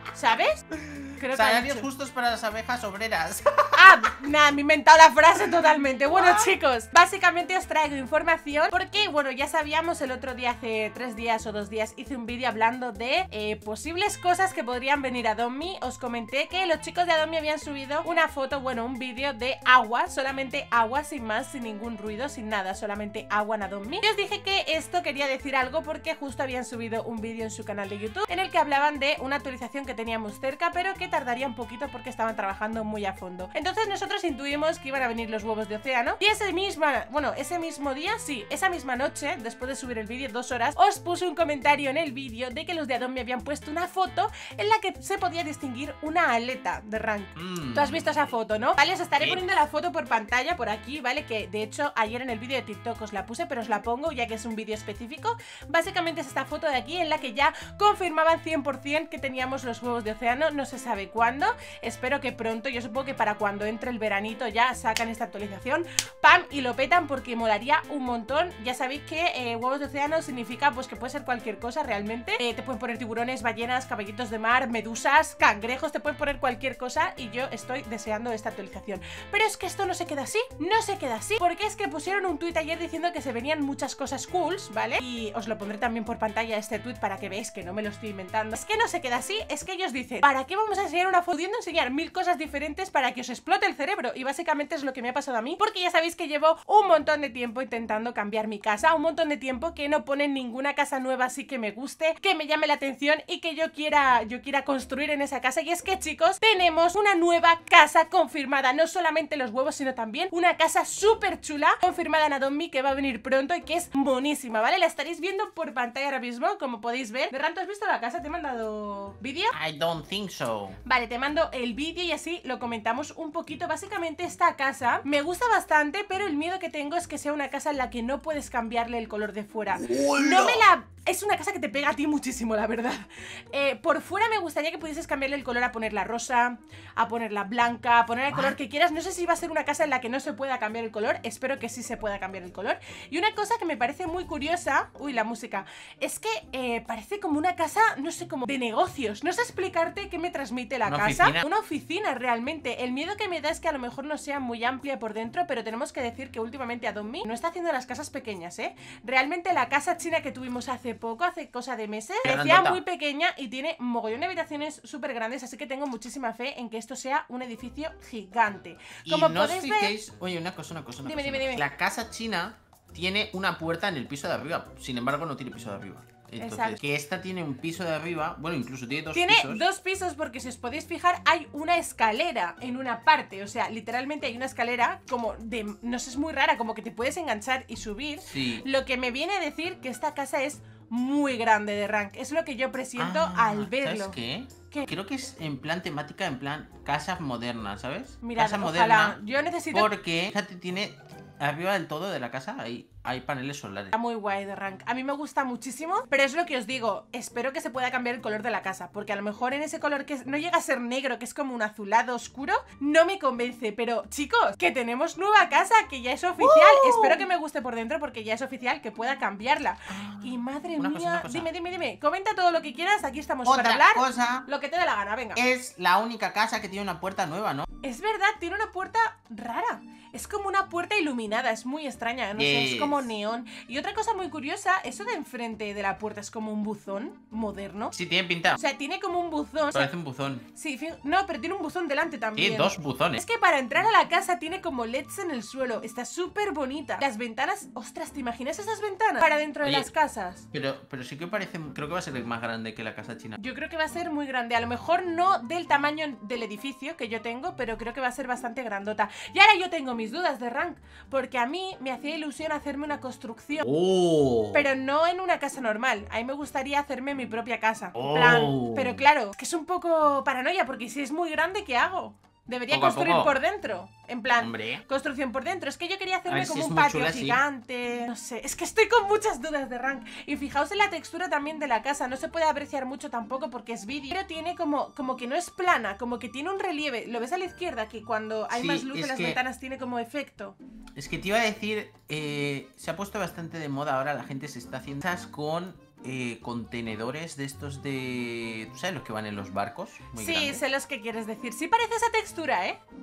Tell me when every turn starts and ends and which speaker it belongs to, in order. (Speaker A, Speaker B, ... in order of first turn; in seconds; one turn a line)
Speaker A: 0.1-0.7
Speaker B: 0.8-4.1
Speaker A: 1.2-1.9
Speaker A: 3.7-119.5
Speaker B: 6.2-6.4
Speaker B: 47.4-48.3
Speaker B: 119.5-120.8
Speaker A: 120.8-170.0
Speaker B: 129.8-130.7
Speaker B: 138.3-138.6
Speaker B: 150.8-151.5
Speaker B: 162.2-162.8
Speaker B: 169.1-179.6
Speaker A: 171.0-171.7
Speaker A: 176.4-176.8
Speaker A: 179.1-194.2
Speaker B: 188.3-188.7
Speaker B: 193.0-199.2
Speaker A: 198.2-199.9
Speaker B: 199.7-203.9
Speaker A: 203.9-225.4
Speaker B: 216.4-217.3
Speaker B: 219.9-221.5
Speaker B: 223.5-224.5
Speaker B: 225.3-227.7
Speaker A: 227.8-237.9
Speaker B: 232.3-233.1
Speaker B: 237.9-238.6
Speaker A: 238.6-239.9
Speaker B: 239.7-240.5
Speaker A: 240.5-250.5
Speaker B: 242.4-243.2
Speaker B: 249.6-249.9
Speaker B: 250.5-253.4
Speaker A: 253.4-263.7
Speaker B: 263.6-264.7
Speaker A: 264.5-290.6
Speaker B: 267.9-269.0
Speaker B: 272.7-273.4
Speaker B: 274.4-274.8
Speaker B: 276.3-277.4
Speaker B: 288.5-289.4
Speaker B: 291.0-300.6
Speaker A: 300.1-302.8